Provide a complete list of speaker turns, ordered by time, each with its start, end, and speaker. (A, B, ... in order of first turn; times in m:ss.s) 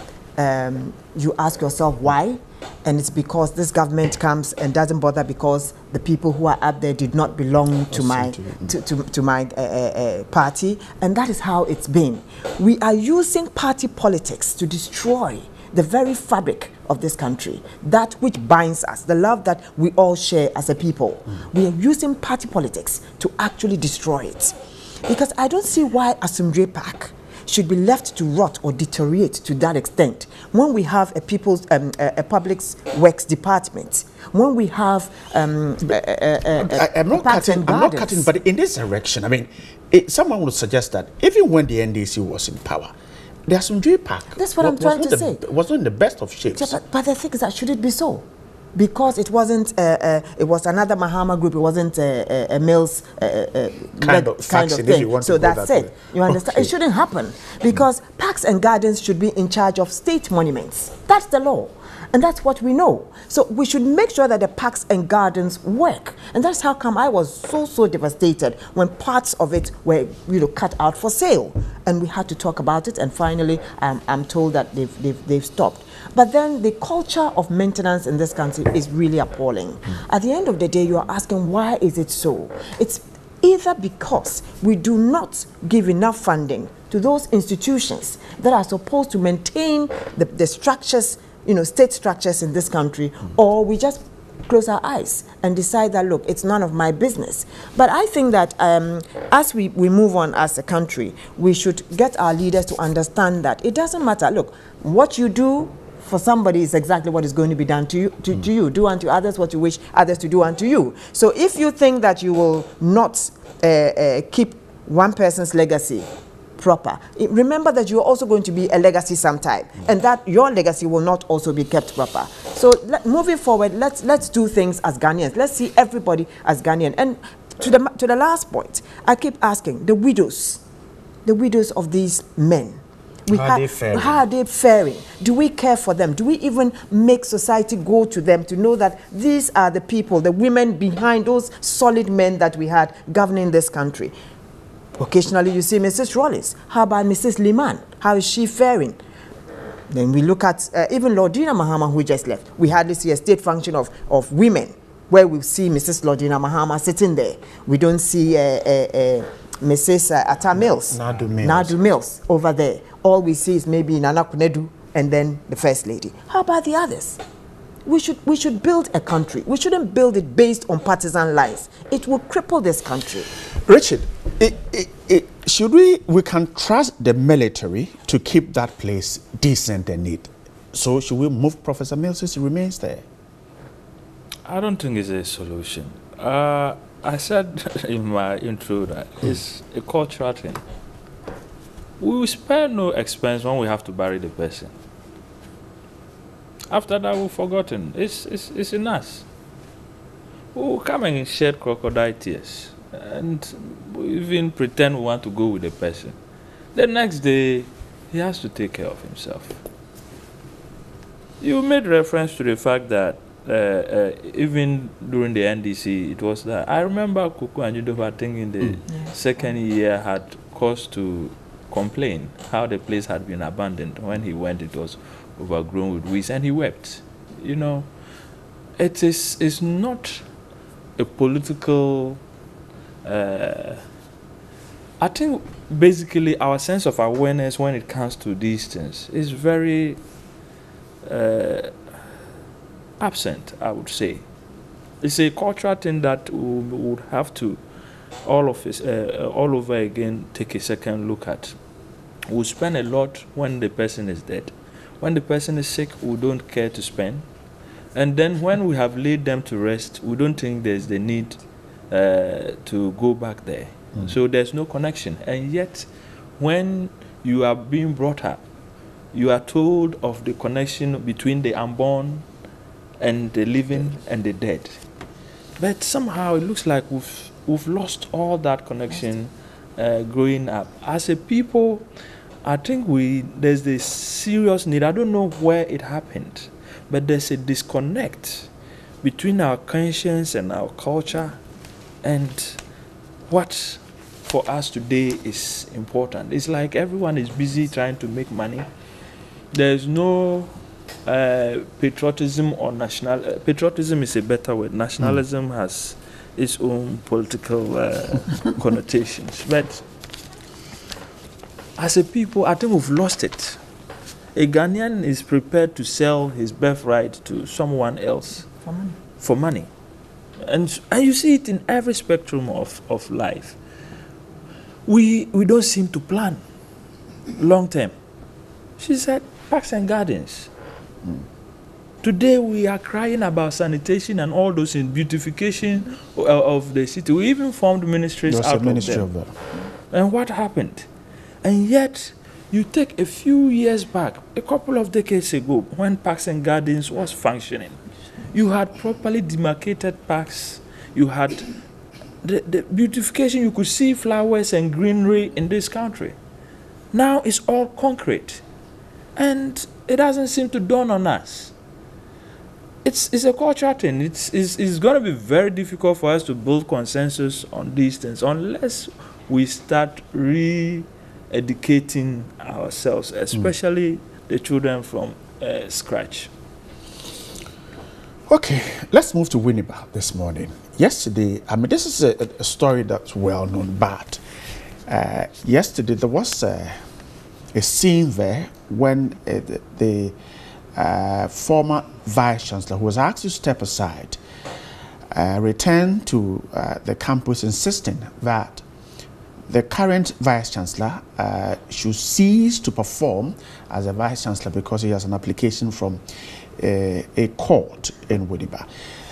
0:00.4-0:24.5 A
0:07.9-0:08.8 B
0:25.0-0:38.3 A
0:36.6-0:42.9 B
0:43.5-0:46.8 B
0:44.4-0:45.4 A
0:46.5-2:10.6 A
0:54.0-0:56.7 B
2:11.2-2:24.1 A
2:13.3-2:14.2 B
2:25.0-2:29.0 A
2:29.9-2:47.2 A
2:40.6-2:41.8 B
2:47.8-2:53.3 A
2:53.6-3:03.0 B
3:04.4-3:10.6 C
3:12.0-3:14.7 C
3:16.7-3:19.2 C
3:20.5-3:26.2 C
3:26.7-3:29.6 C
3:31.4-3:47.9 C
3:48.8-3:50.3 C
3:51.0-3:52.2 C
3:53.0-3:53.8 C
3:55.0-4:00.0 C
4:01.0-4:01.7 C
4:03.0-4:04.2 C
4:05.0-4:07.6 C
4:08.2-4:11.6 C
4:12.3-4:17.2 C
4:17.9-4:21.4 C
4:21.9-4:25.9 C
4:26.4-4:28.4 C
4:29.1-4:32.2 C
4:33.0-4:34.8 C
4:35.6-4:41.8 C
4:42.4-4:48.5 C
4:49.0-4:51.4 C
4:52.0-4:52.6 C
4:53.3-4:58.7 C
4:59.5-5:00.5 C
5:01.0-5:09.8 C
5:11.8-5:13.6 C
5:14.3-5:18.5 C
5:18.6-5:19.0 A
5:19.2-5:19.7 C
5:20.4-5:23.6 C
5:24.8-5:26.4 C
5:27.3-5:27.9 C
5:28.8-5:30.5 C
5:32.0-5:39.1 C
5:38.3-5:39.3 B
5:39.9-5:40.9 C
5:41.4-5:47.8 C
5:48.3-5:51.6 C
5:52.2-5:56.2 C
5:56.9-5:58.4 C
5:59.2-6:01.5 C
6:02.8-6:16.3 C
6:18.3-6:24.2 B
6:24.9-6:26.8 B
6:27.5-6:30.1 B
6:30.8-6:34.2 B
6:35.1-6:38.6 B
6:39.5-6:46.0 B
6:46.6-6:48.7 B